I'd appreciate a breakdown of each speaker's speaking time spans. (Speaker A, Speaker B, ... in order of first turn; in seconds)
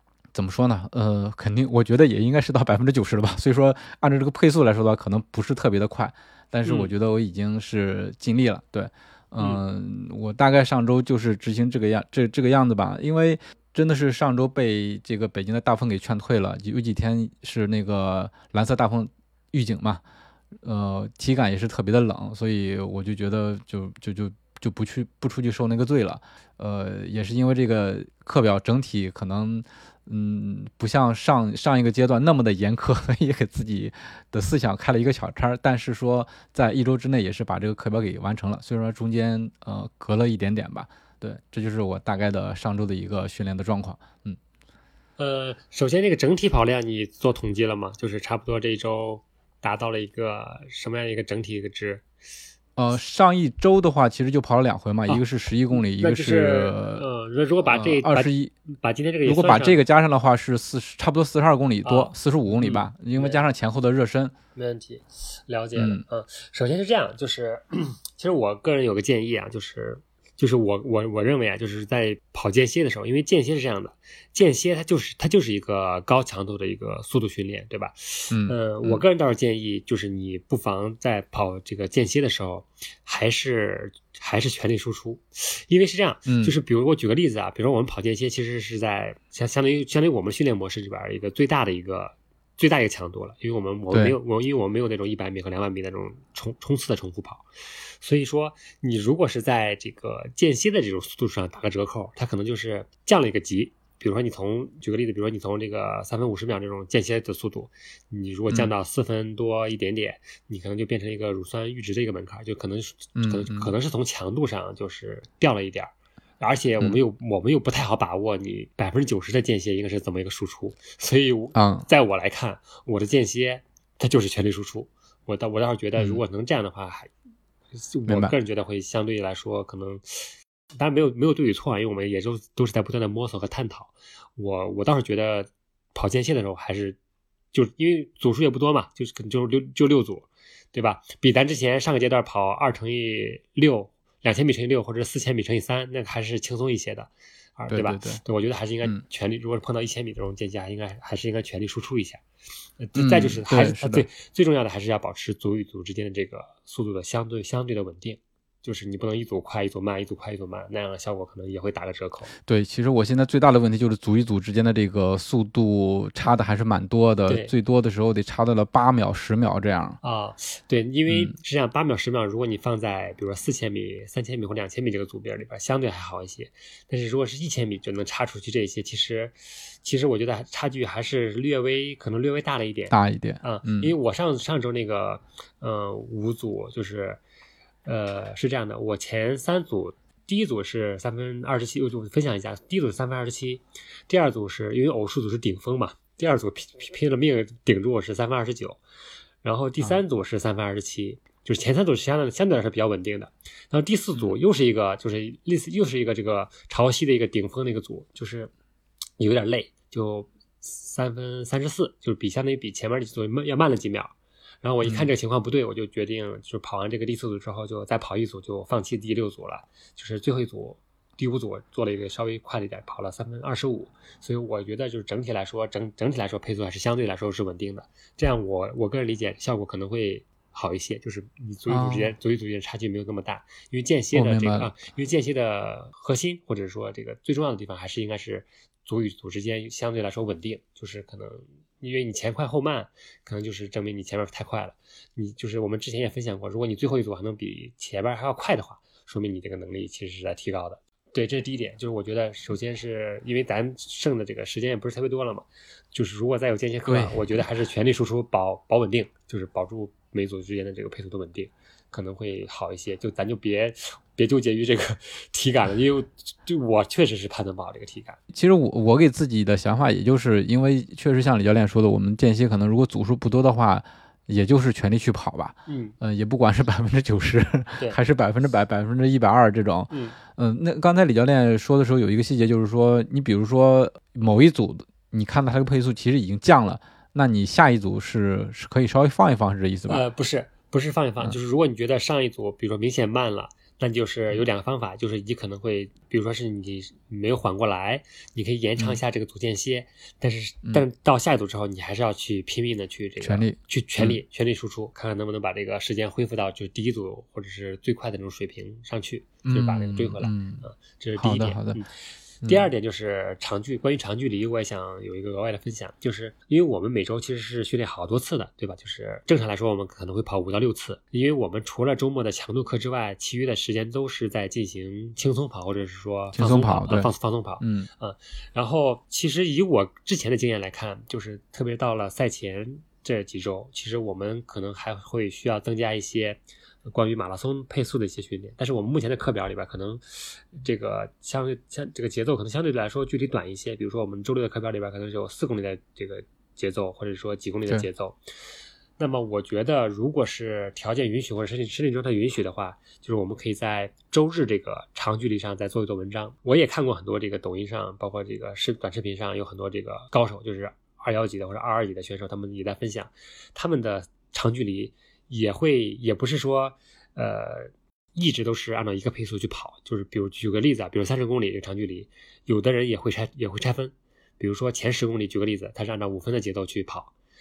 Speaker A: 0.3-20.0, 20.6-44.4, 52.8-57.0, 57.7-58.5, 59.2-64.3, 65.8-66.0, 78.3-79.0, 86.3-86.6, 93.9-94.2, 113.2-113.7, 121.5-121.9, 126.0-126.2, 128.1-128.3, 147.7-148.2, 152.9-154.1, 162.5-170.0, 171.1-171.3, 182.9-183.9, 231.7-232.2, 234.1-234.7, 256.9-257.4, 268.3-290.0, 303.2-304.2, 309.4-310.6, 311.2-311.8, 326.3-327.9
Speaker B: 6.7-6.9, 45.2-52.0, 55.8-59.8, 61.8-63.4, 64.6-97.5, 98.0-127.1, 127.8-137.0, 137.5-152.2, 152.8-162.3, 167.3-167.5, 170.0-187.2, 187.9-198.8, 199.4-208.5, 209.2-268.2, 275.7-275.9, 279.9-280.2, 289.9-311.9, 312.4-348.2, 349.0-377.1